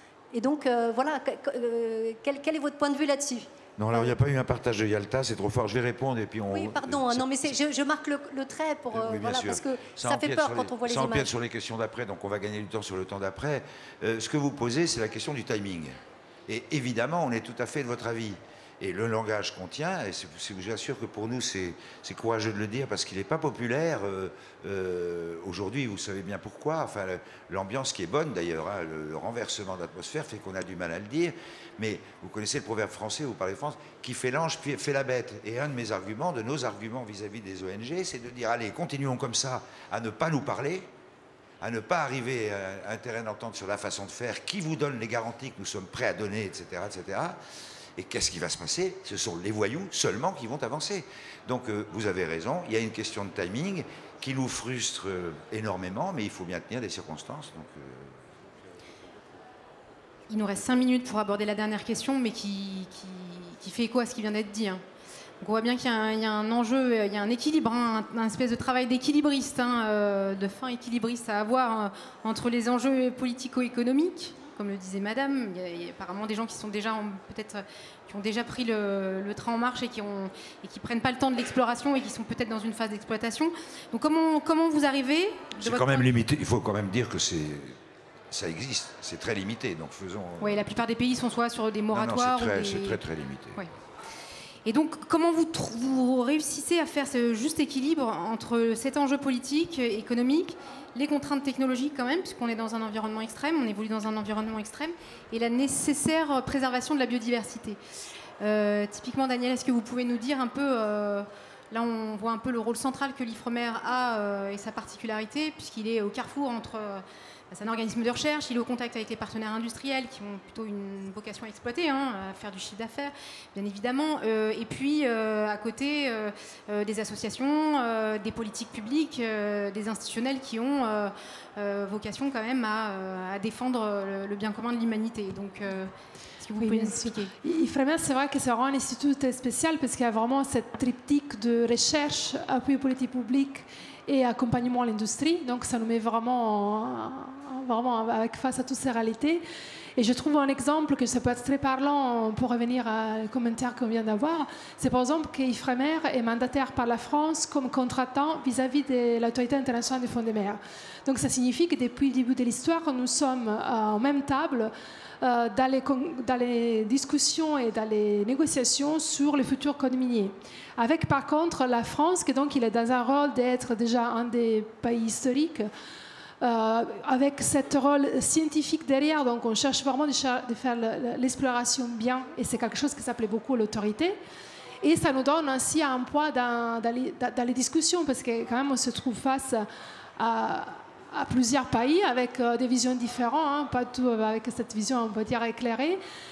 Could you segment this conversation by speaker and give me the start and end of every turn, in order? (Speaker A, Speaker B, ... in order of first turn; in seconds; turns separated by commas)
Speaker A: 0.3-4.2, Speaker B: 3.8-7.6, Speaker A: 6.5-11.3, Speaker B: 8.9-40.9, Speaker B: 41.6-47.4, Speaker B: 48.0-58.2, Speaker C: 60.3-64.8, Speaker C: 65.4-86.1, Speaker B: 85.6-87.8, Speaker B: 88.3-90.7, Speaker C: 90.4-93.0, Speaker B: 91.9-93.6, Speaker C: 94.7-107.8, Speaker C: 108.4-137.3, Speaker D: 136.6-149.4, Speaker D: 150.0-175.7, Speaker D: 176.4-184.2, Speaker D: 184.8-189.7, Speaker D: 190.2-196.0